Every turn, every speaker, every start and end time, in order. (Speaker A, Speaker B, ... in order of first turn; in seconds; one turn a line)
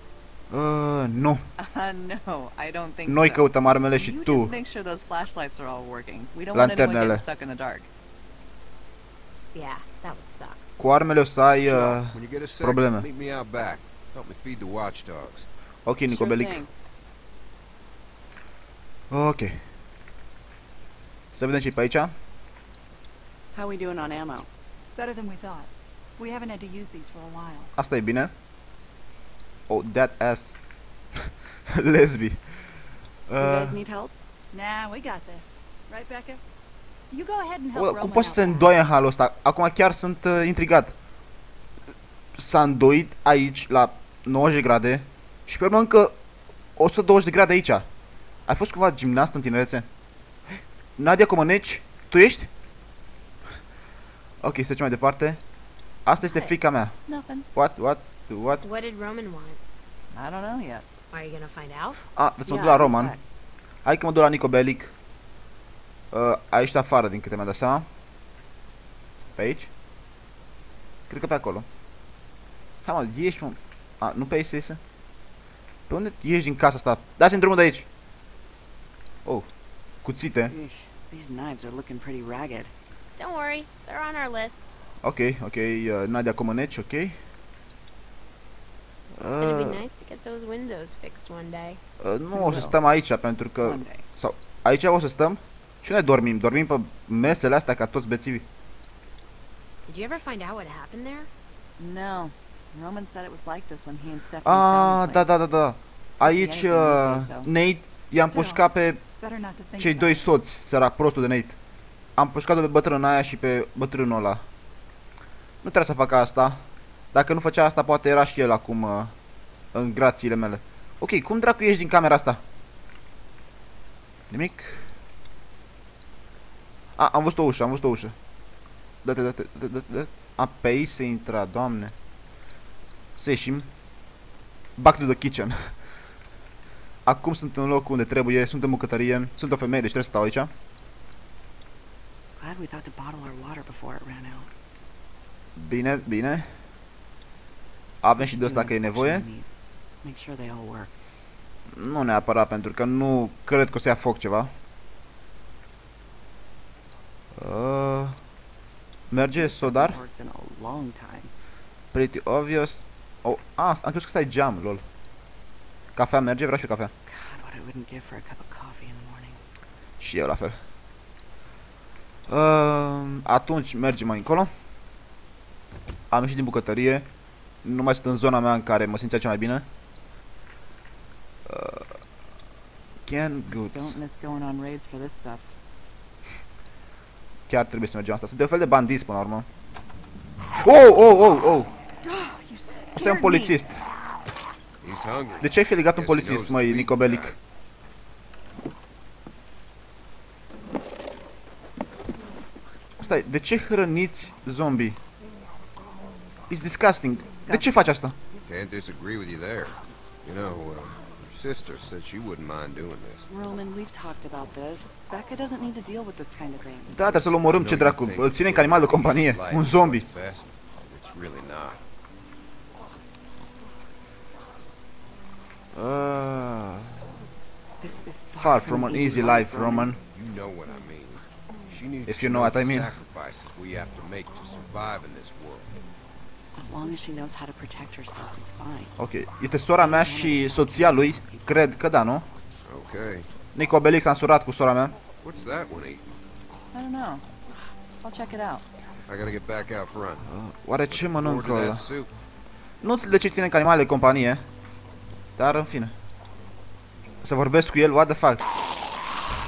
Speaker A: 0.5-1.4
Speaker B: 1.6-7.9
Speaker A: 3.0-4.5
Speaker A: 6.5-7.2
Speaker C: 9.5-10.6
Speaker A: 10.8-13.1
Speaker D: 11.6-15.5
Speaker A: 15.8-16.6
Speaker B: 16.1-16.7
Speaker A: 19.1-19.6
Speaker A: 21.3-22.1
Speaker B: 23.5-24.5
Speaker E: 25.0-27.7
Speaker A: 27.8-28.3
Speaker A: 29.7-30.6
Speaker A: 31.7-32.6
Speaker A: 33.3-33.8
Speaker B: 33.4-34.1
Speaker E: 34.5-36.4
Speaker E: 37.1-38.7
Speaker A: 37.7-40.9
Speaker A: 42.4-46.1
Speaker A: 46.8-47.9
Speaker A: 48.5-49.9
Speaker A: 51.0-52.5
Speaker A: 54.4-55.4
Speaker A: 56.0-57.0
Speaker C: 56.2-56.6
Speaker B: 57.1-57.5
Speaker A: 57.5-58.6
Speaker C: 58.6-59.6
Speaker B: 60.1-60.9
Speaker C: 61.1-62.0
Speaker A: 62.1-63.1
Speaker B: 62.5-63.2
Speaker A: 63.9-64.9
Speaker A: 66.1-67.9
Speaker A: 69.4-69.7
Speaker A: 71.1-71.7
Speaker A: 72.8-74.8
Speaker A: 75.9-77.9
Speaker A: 80.0-80.5
Speaker B: 80.5-82.7
Speaker C: 83.2-84.7
Speaker A: 85.0-87.2
Speaker A: 89.2-89.8
Speaker C: 89.4-91.8
Speaker A: 92.0-98.4
Speaker B: 92.3-92.8
Speaker B: 93.6-94.0
Speaker C: 99.8-101.3
Speaker B: 101.8-105.4
Speaker A: 104.5-109.0
Speaker B: 106.2-107.5
Speaker E: 108.2-108.7
Speaker E: 109.2-110.3
Speaker A: 109.8-111.6
Speaker A: 112.2-114.4
Speaker A: 115.6-116.6
Speaker A: 117.1-119.1
Speaker A: 119.7-122.4
Speaker A: 124.3-124.8
Speaker A: 127.0-128.1
Speaker A: 129.0-131.9
Speaker A: 133.2-133.7
Speaker A: 134.8-135.7
Speaker A: 137.1-140.5
Speaker B: 142.4-144.5
Speaker A: 145.6-146.5
Speaker A: 148.0-149.3
Speaker B: 148.2-150.9
Speaker A: 151.7-154.5
Speaker A: 157.4-158.2
Speaker A: 159.1-160.0
Speaker B: 159.3-161.3
Speaker A: 161.9-164.8
Speaker A: 166.0-166.9
Speaker B: 167.1-169.4
Speaker A: 170.0-170.6
Speaker A: 172.3-174.5
Speaker A: 176.1-177.1
Speaker A: 177.6-179.7
Speaker A: 181.5-182.0
Speaker A: 183.1-184.0
Speaker B: 183.5-185.5
Speaker A: 187.5-189.5
Speaker A: 190.6-191.7
Speaker B: 192.0-193.5
Speaker A: 193.0-193.8
Speaker E: 193.3-193.5
Speaker D: 194.8-197.4
Speaker A: 195.4-197.4
Speaker A: 203.0-205.0
Speaker A: 206.5-208.2
Speaker B: 207.2-207.9
Speaker D: 208.4-213.3
Speaker B: 213.3-217.7
Speaker A: 216.9-220.1
Speaker D: 217.5-221.8
Speaker A: 225.7-227.0
Speaker B: 227.8-230.0
Speaker A: 228.4-230.0
Speaker D: 230.1-235.7
Speaker A: 232.1-232.9
Speaker B: 236.5-238.9
Speaker A: 239.0-242.2
Speaker B: 239.8-241.7
Speaker D: 242.7-243.3
Speaker A: 243.6-244.9
Speaker D: 245.2-246.0
Speaker B: 246.7-247.3
Speaker B: 248.0-248.7
Speaker D: 249.1-250.3
Speaker A: 250.2-251.9
Speaker D: 250.9-252.1
Speaker A: 252.8-254.4
Speaker A: 255.4-255.9
Speaker A: 257.2-258.4